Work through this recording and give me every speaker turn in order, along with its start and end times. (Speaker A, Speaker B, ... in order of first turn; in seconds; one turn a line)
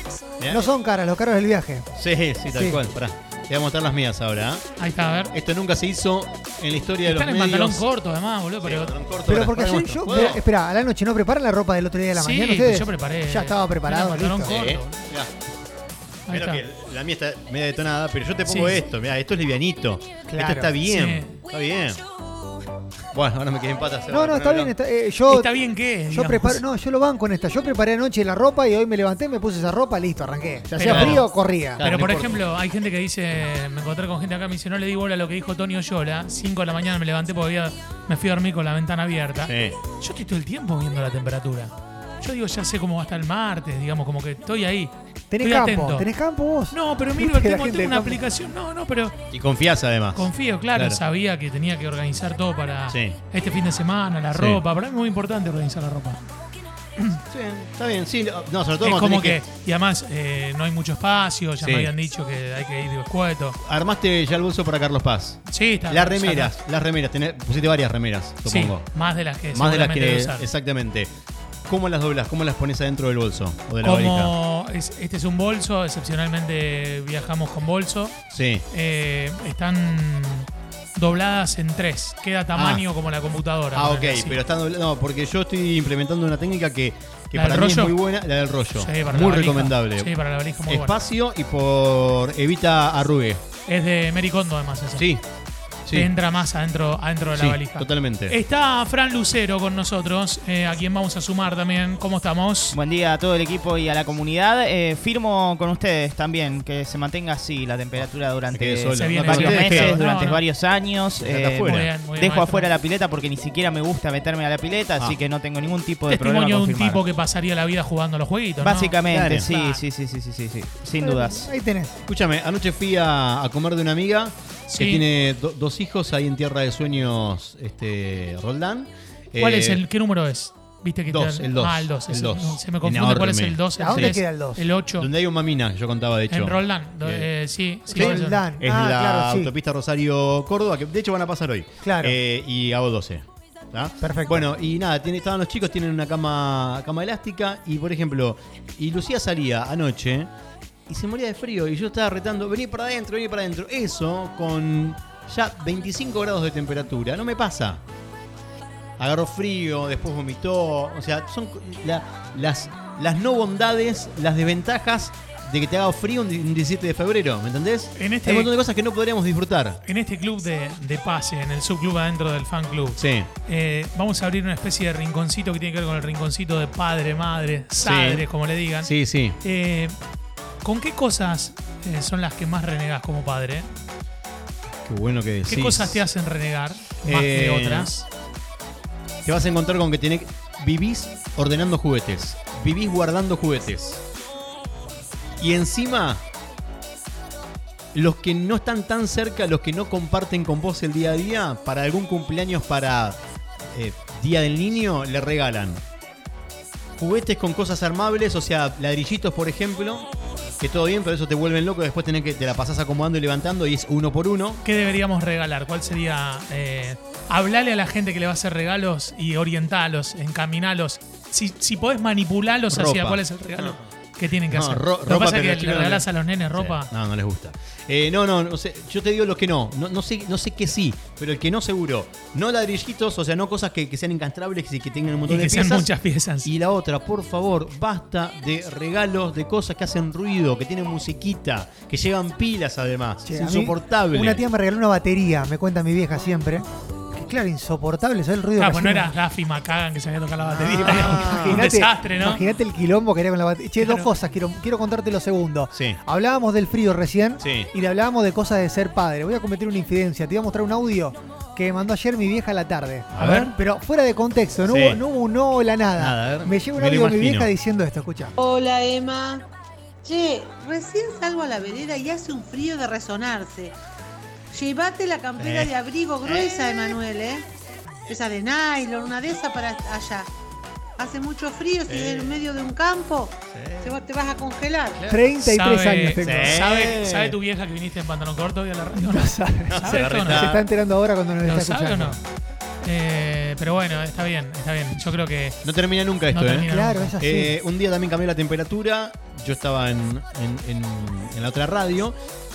Speaker A: 0.4-0.7
Speaker B: 0.5-1.9
Speaker A: 2.0-4.7
Speaker B: 2.5-2.8
Speaker C: 4.8-5.3
Speaker A: 5.3-7.9
Speaker C: 7.0-8.9
Speaker A: 8.6-10.4
Speaker B: 9.3-14.5
Speaker C: 12.2-14.9
Speaker A: 14.4-15.3
Speaker C: 16.3-16.6
Speaker A: 16.3-22.0
Speaker C: 18.5-18.9
Speaker B: 20.3-20.7
Speaker C: 20.8-21.4
Speaker A: 23.1-24.8
Speaker B: 24.1-25.5
Speaker C: 25.3-26.6
Speaker B: 26.1-31.8
Speaker A: 30.7-31.3
Speaker C: 30.8-31.3
Speaker A: 31.8-32.4
Speaker C: 31.8-46.1
Speaker A: 39.4-39.8
Speaker B: 45.3-48.2
Speaker C: 46.7-49.1
Speaker A: 49.3-51.0
Speaker C: 50.1-56.2
Speaker A: 52.9-53.2
Speaker A: 54.3-54.6
Speaker A: 57.3-59.4
Speaker C: 58.8-63.6
Speaker A: 61.6-61.9
Speaker A: 63.6-68.9
Speaker C: 65.5-66.5
Speaker C: 68.5-70.5
Speaker A: 69.5-71.1
Speaker A: 71.7-74.3
Speaker C: 73.8-78.2
Speaker A: 78.3-78.7
Speaker C: 78.7-84.4
Speaker A: 82.5-82.8
Speaker A: 83.7-90.1
Speaker C: 87.3-88.0
Speaker C: 88.8-91.0
Speaker A: 90.7-93.4
Speaker C: 93.7-95.1
Speaker A: 95.0-95.2
Speaker C: 95.9-102.8
Speaker A: 97.3-98.4
Speaker D: 102.7-117.0
Speaker A: 107.9-110.0
Speaker C: 109.0-110.4
Speaker A: 111.2-112.0
Speaker C: 111.6-112.7
Speaker C: 116.1-119.8
Speaker D: 118.6-121.5
Speaker A: 119.1-119.5
Speaker B: 121.0-122.0
Speaker A: 122.0-129.8
Speaker C: 124.7-125.0
Speaker C: 129.4-135.1
Speaker A: 131.1-134.2
Speaker B: 133.8-134.7
Speaker A: 135.0-137.3
Speaker C: 136.3-138.4
Speaker A: 137.9-150.3
Speaker B: 137.9-139.5
Speaker B: 141.8-142.2
Speaker B: 144.0-144.5
Speaker A: 150.9-157.8
Speaker A: 159.0-169.8
Speaker C: 168.0-168.5
Speaker C: 169.8-180.0
Speaker A: 173.0-173.3
Speaker A: 177.8-178.3
Speaker A: 178.8-179.4
Speaker C: 180.6-183.7
Speaker A: 184.8-186.1
Speaker C: 185.5-188.1
Speaker A: 187.1-187.9
Speaker A: 189.2-194.0
Speaker A: 195.4-196.2
Speaker A: 197.9-203.2
Speaker A: 203.7-205.8
Speaker A: 207.0-210.1
Speaker A: 210.6-214.6
Speaker C: 214.6-226.9
Speaker A: 222.7-223.8
Speaker A: 224.5-235.9
Speaker C: 235.3-236.5
Speaker A: 236.4-244.4
Speaker B: 243.3-249.2
Speaker C: 248.6-252.4
Speaker B: 250.4-268.3
Speaker A: 250.8-251.7
Speaker C: 253.8-254.1
Speaker A: 255.7-256.0
Speaker A: 257.4-257.7
Speaker A: 263.1-263.5
Speaker A: 264.6-265.0
Speaker A: 266.0-267.5
Speaker E: 268.4-269.5
Speaker E: 270.0-273.8
Speaker E: 274.5-277.5
Speaker A: 275.4-275.7
Speaker A: 276.2-276.9
Speaker E: 278.1-280.3
Speaker E: 281.0-285.0
Speaker A: 281.9-282.4
Speaker A: 283.5-284.0
Speaker A: 285.0-285.2
Speaker B: 285.1-286.6
Speaker C: 285.4-290.5
Speaker A: 286.2-287.4
Speaker B: 289.0-292.2
Speaker A: 289.7-290.6
Speaker C: 291.4-292.2
Speaker C: 292.8-295.6
Speaker A: 295.6-302.2
Speaker C: 296.3-297.1
Speaker B: 296.7-297.6